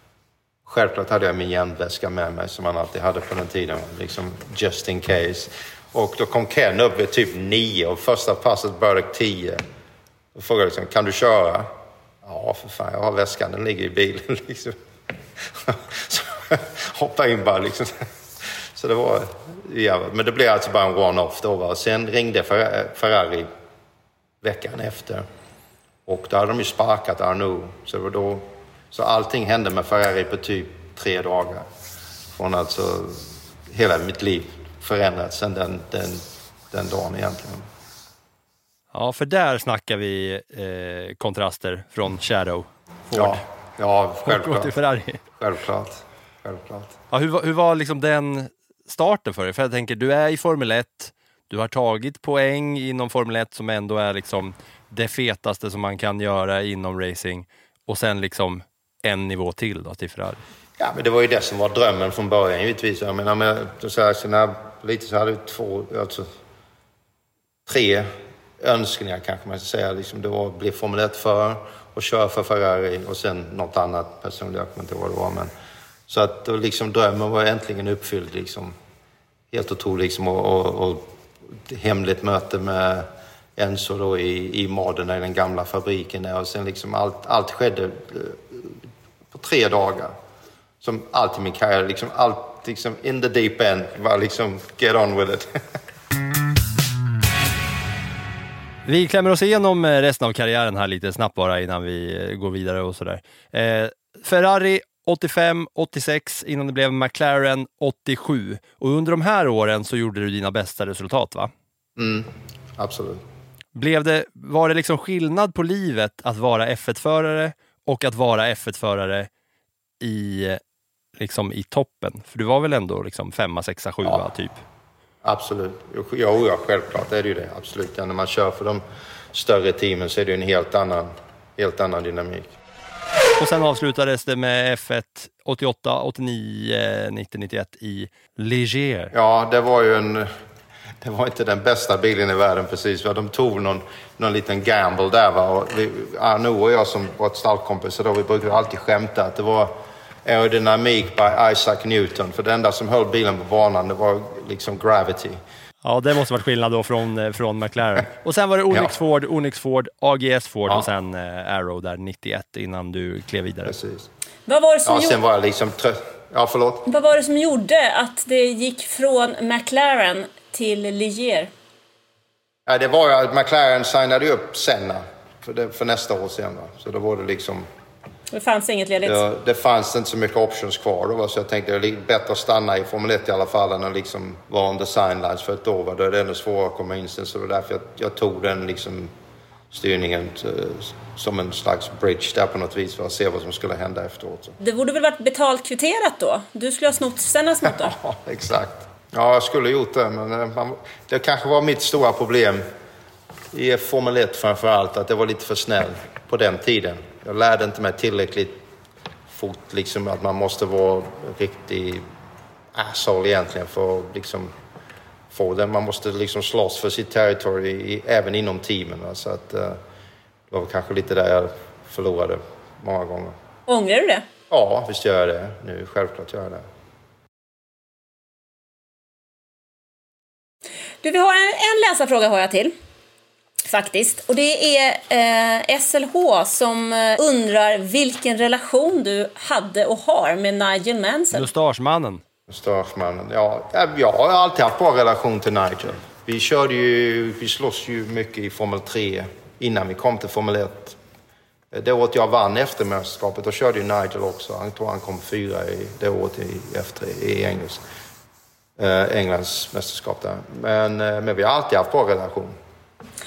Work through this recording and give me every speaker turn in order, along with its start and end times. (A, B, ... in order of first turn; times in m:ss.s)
0:00.6-0:09.6 A
0:10.3-0:14.8 A
0:15.5-0:23.5 A
0:24.4-0:25.2 A
0:26.0-0:31.7 A
0:32.3-0:37.6 A
0:38.9-0:43.4 B
0:43.1-0:44.8 A
0:44.2-0:45.2 B
0:45.3-0:47.0 A
0:47.1-1:00.4 B
1:00.8-1:06.3 A
1:07.6-1:15.5 A
1:16.1-1:18.8 A
1:19.5-1:28.8 A
1:29.3-1:30.1 A
1:30.8-1:35.5 A
1:38.8-1:51.5 B
1:52.0-1:53.2 A
1:53.8-1:59.3 B
2:00.0-2:00.6 B
2:01.2-2:04.6 B
2:05.2-2:12.5 A
2:13.4-2:19.1 B
2:19.1-2:20.3 A
2:21.0-2:35.4 A
2:35.8-2:43.7 B
2:43.6-2:44.1 A
2:44.5-2:45.2 C
2:44.8-2:46.9 A
2:46.9-2:51.5 C
2:52.7-2:57.7 A
2:58.3-2:59.2 C
2:59.0-3:09.1 A
3:09.7-3:14.6 A
3:14.6-3:17.9 C
3:17.6-3:22.6 A
3:23.5-3:28.6 A
3:29.3-3:32.0 A
3:32.7-3:34.5 A
3:35.3-3:39.8 A
3:40.5-3:43.4 A
3:43.7-3:44.3 C
3:44.5-3:46.6 A
3:51.0-3:52.7 C
3:53.6-4:01.5 C
4:01.3-4:02.2 B
4:02.5-4:11.0 A
4:11.7-4:17.8 A
4:18.8-4:22.6 A